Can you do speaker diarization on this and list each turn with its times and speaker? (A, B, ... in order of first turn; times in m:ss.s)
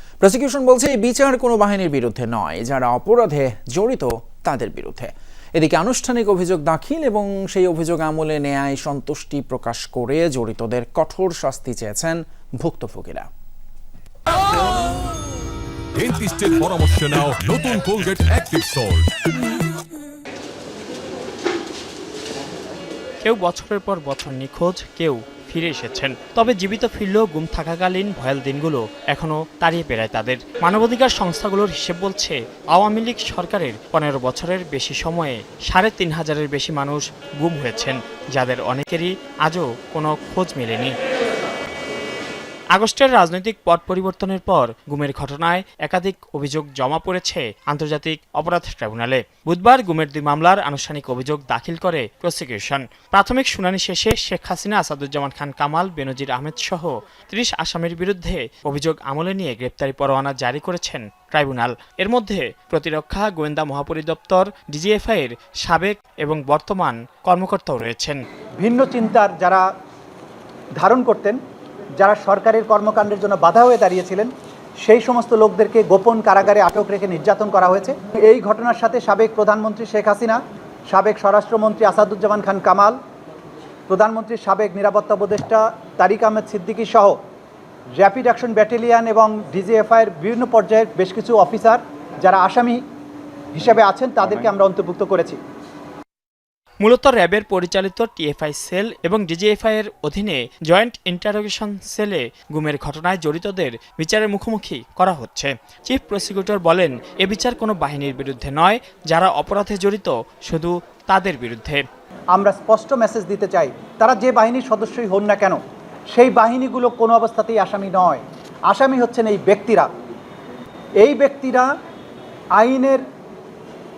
0:00.2-0:13.3 A
0:16.0-0:19.1 B
0:23.2-0:40.9 C
0:42.7-1:08.2 C
1:08.6-1:09.6 D
1:10.8-1:11.4 D
1:12.0-1:14.3 D
1:14.8-1:23.0 D
1:23.9-1:27.2 D
1:28.0-1:32.8 D
1:33.5-1:35.4 D
1:36.8-1:51.8 C
1:52.3-1:55.6 D
1:56.1-1:59.9 D
2:01.0-2:01.6 D
2:02.6-2:03.0 D